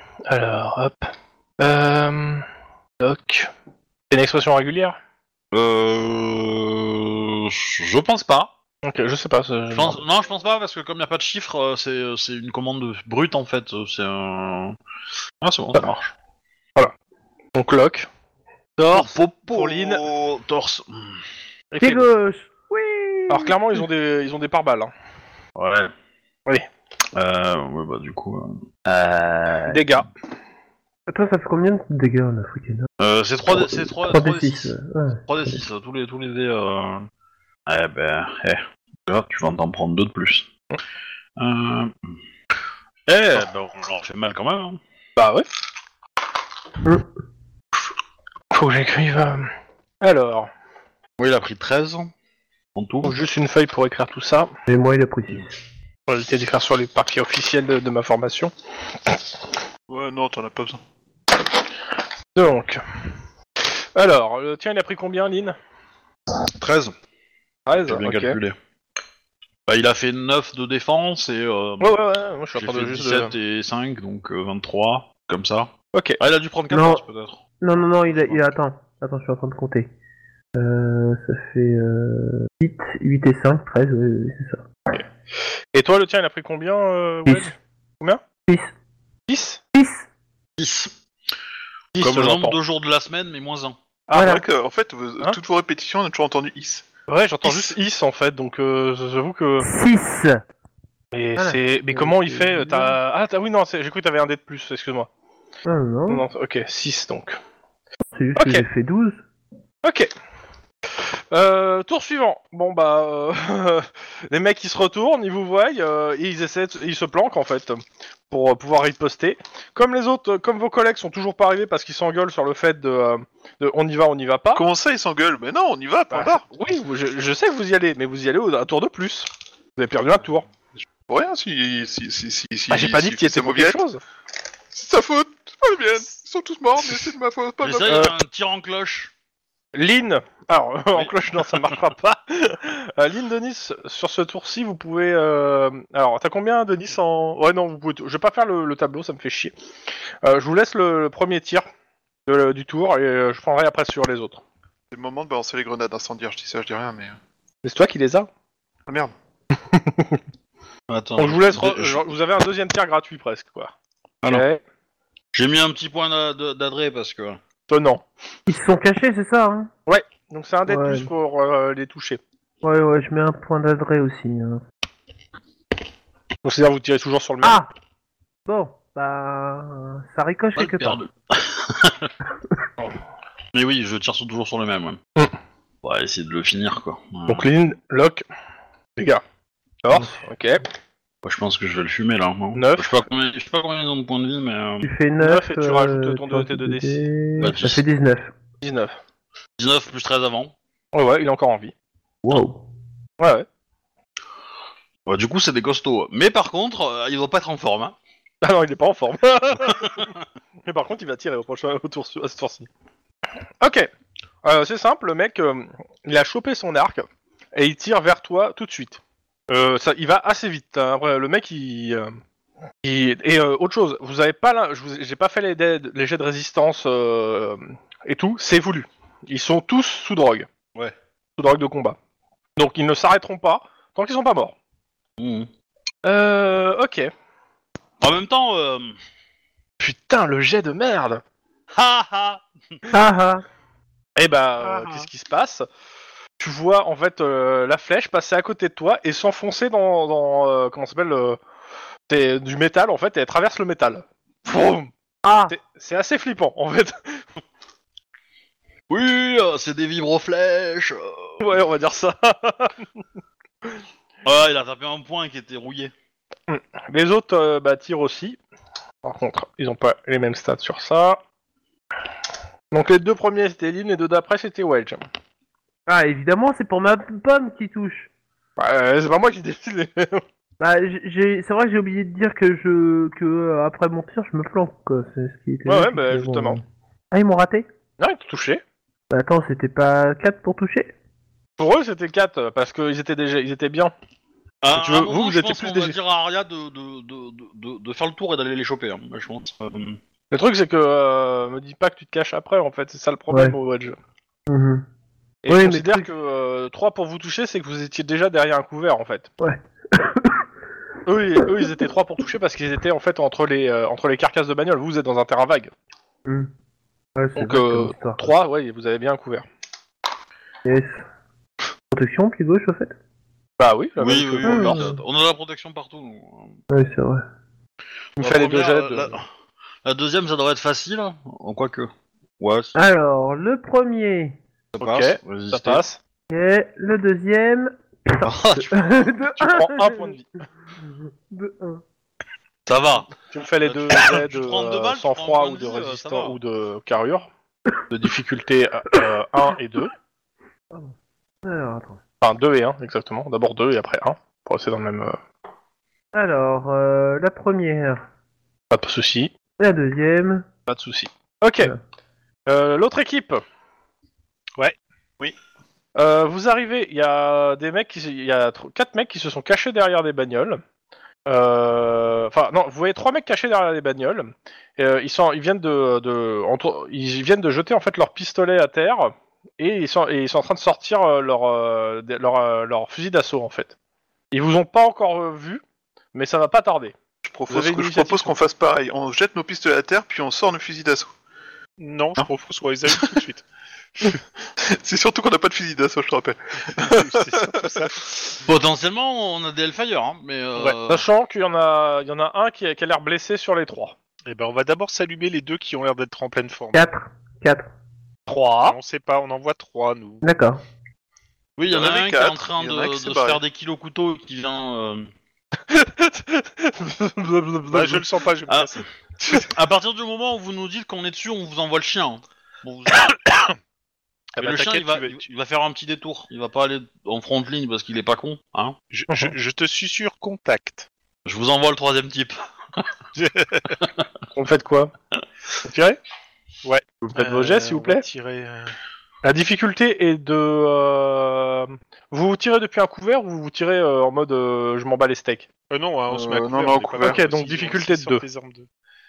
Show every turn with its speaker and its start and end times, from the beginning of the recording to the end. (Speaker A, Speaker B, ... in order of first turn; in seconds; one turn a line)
Speaker A: 0.2-2.5
Speaker A: 3.0-3.5
Speaker A: 4.1-5.0
Speaker B: 5.5-8.5
Speaker A: 8.8-10.0
Speaker B: 9.7-14.8
Speaker B: 15.4-16.1
Speaker A: 17.5-18.1
Speaker A: 18.8-20.0
Speaker B: 18.9-21.2
Speaker A: 21.7-22.1
Speaker C: 21.8-23.5
Speaker A: 23.3-24.9
Speaker B: 25.6-25.9
Speaker B: 27.1-30.0
Speaker A: 29.7-30.1
Speaker C: 31.1-32.9
Speaker B: 33.0-34.8
Speaker C: 33.5-35.6
Speaker B: 35.3-37.1
Speaker B: 37.6-40.5
Speaker B: 41.4-41.9
Speaker B: 43.1-44.8
Speaker A: 45.1-45.5
Speaker A: 48.5-50.5
Speaker B: 51.2-52.1
Speaker B: 52.7-53.1
Speaker A: 53.0-54.5
Speaker C: 54.7-55.4
Speaker A: 56.1-58.5
Speaker D: 59.9-60.8
Speaker A: 62.3-62.8
Speaker A: 63.6-65.5
Speaker B: 66.4-66.9
Speaker A: 67.7-68.4
Speaker B: 67.8-68.5
Speaker B: 69.7-72.0
Speaker A: 71.8-73.3
Speaker B: 72.5-77.4
Speaker A: 75.9-76.2
Speaker C: 76.7-77.0
Speaker C: 77.6-79.9
Speaker B: 78.0-78.4
Speaker C: 80.5-84.7
Speaker A: 85.7-88.2
Speaker C: 87.3-87.5
Speaker A: 89.3-89.6
Speaker C: 89.7-90.0
Speaker B: 90.6-90.9
Speaker A: 91.9-92.6
Speaker B: 92.0-93.8
Speaker A: 94.1-94.4
Speaker C: 94.1-94.4
Speaker D: 94.1-96.8
Speaker A: 97.1-99.7
Speaker D: 97.4-97.7
Speaker C: 99.6-100.4
Speaker A: 101.1-105.1
Speaker C: 101.4-103.0
Speaker C: 105.6-106.2
Speaker A: 106.1-107.4
Speaker C: 108.1-109.2
Speaker A: 108.3-108.6
Speaker A: 109.8-110.1
Speaker A: 110.9-124.6
Speaker D: 124.5-126.4
Speaker A: 126.1-130.4
Speaker D: 131.1-133.8
Speaker A: 132.7-134.0
Speaker D: 134.7-138.1
Speaker B: 137.6-139.1
Speaker A: 137.8-138.1
Speaker A: 139.7-149.5
Speaker A: 150.2-151.7
Speaker A: 152.2-154.4
Speaker D: 154.9-157.2
Speaker A: 157.6-158.3
Speaker D: 158.9-159.1
Speaker A: 159.5-160.2
Speaker B: 160.9-162.1
Speaker A: 161.2-163.7
Speaker A: 164.3-164.6
Speaker B: 165.3-167.4
Speaker A: 167.7-168.0
Speaker C: 168.5-169.7
Speaker A: 169.9-172.2
Speaker C: 170.7-171.1
Speaker C: 172.6-174.6
Speaker A: 176.4-177.6
Speaker C: 177.4-177.7
Speaker C: 178.4-181.0
Speaker B: 180.6-182.1
Speaker B: 183.5-185.0
Speaker B: 185.8-187.5
Speaker A: 187.3-188.2
Speaker A: 189.0-189.2
Speaker A: 189.8-190.6
Speaker B: 191.2-194.9
Speaker A: 192.5-192.9
Speaker C: 194.8-198.3
Speaker A: 195.2-197.0
Speaker B: 197.4-197.8
Speaker A: 198.6-198.9
Speaker B: 199.6-200.5
Speaker A: 200.9-201.7
Speaker C: 202.2-202.6
Speaker A: 203.2-203.4
Speaker B: 205.1-207.9
Speaker A: 208.4-210.1
Speaker B: 209.7-210.1
Speaker A: 210.6-212.7
Speaker A: 213.6-213.9
Speaker A: 214.4-222.2
Speaker A: 222.8-230.5
Speaker A: 231.4-232.0
Speaker A: 232.6-234.5
Speaker B: 235.2-235.5
Speaker A: 236.0-237.1
Speaker B: 238.0-238.9
Speaker A: 239.8-241.2
Speaker B: 241.7-242.4
Speaker C: 242.9-243.4
Speaker A: 244.2-245.7
Speaker A: 246.4-251.4
Speaker A: 252.1-254.9
Speaker C: 255.2-255.5
Speaker A: 255.5-257.2
Speaker B: 258.9-261.4
Speaker A: 261.4-262.8
Speaker B: 264.2-265.9
Speaker A: 266.5-268.4
Speaker A: 269.0-271.2
Speaker A: 272.7-275.0
Speaker C: 275.9-278.1
Speaker A: 278.6-280.2
Speaker C: 280.6-287.7
Speaker A: 285.6-286.6
Speaker A: 288.0-288.6
Speaker C: 289.1-290.9
Speaker A: 291.6-293.9
Speaker B: 294.6-300.0
Speaker A: 294.7-295.9
Speaker A: 300.3-303.9
Speaker C: 304.5-304.8
Speaker A: 305.4-309.3
Speaker C: 305.5-306.1
Speaker C: 309.4-310.4
Speaker A: 311.1-315.7
Speaker C: 317.1-318.2
Speaker A: 317.4-319.4
Speaker C: 320.6-321.0
Speaker C: 321.9-322.9
Speaker A: 323.6-324.9
Speaker B: 324.0-326.6
Speaker C: 324.4-325.0
Speaker C: 326.7-327.2
Speaker B: 328.2-329.2
Speaker A: 328.2-329.1
Speaker B: 329.8-332.8
Speaker C: 332.7-334.4
Speaker B: 334.7-335.8
Speaker A: 334.8-336.0
Speaker C: 336.3-340.1
Speaker B: 338.2-339.2
Speaker A: 339.4-340.2
Speaker C: 340.9-341.8
Speaker B: 342.7-346.4
Speaker A: 343.3-347.3
Speaker A: 347.9-349.9
Speaker C: 351.4-352.0
Speaker A: 352.2-355.2
Speaker C: 356.1-358.0
Speaker A: 358.7-359.3
Speaker C: 359.6-360.5
Speaker A: 360.7-361.7
Speaker A: 362.5-363.4
Speaker A: 365.9-370.6
Speaker A: 371.3-383.7
Speaker A: 384.3-385.6
Speaker A: 386.1-386.9
Speaker D: 387.2-391.1
Speaker A: 387.5-388.3
Speaker E: 391.8-393.4
Speaker D: 392.9-393.2
Speaker D: 394.6-398.0
Speaker E: 396.8-398.0
Speaker B: 398.4-401.0
Speaker A: 400.9-403.9
Speaker E: 404.3-406.9
Speaker C: 406.7-407.7
Speaker E: 408.3-410.2
Speaker C: 410.2-410.6
Speaker B: 411.6-415.1
Speaker D: 411.7-413.4
Speaker A: 415.7-418.0
Speaker E: 417.7-418.8
Speaker B: 418.5-423.2
Speaker E: 424.4-425.2
Speaker B: 424.4-428.8
Speaker E: 428.9-430.9
Speaker A: 429.1-429.3
Speaker B: 431.2-432.4
Speaker E: 433.1-433.8
Speaker A: 434.3-434.9
Speaker A: 435.6-436.0
Speaker E: 436.6-438.7
Speaker A: 437.1-438.0
Speaker A: 439.2-445.5
Speaker E: 445.7-448.7
Speaker D: 446.1-447.2
Speaker A: 447.0-448.2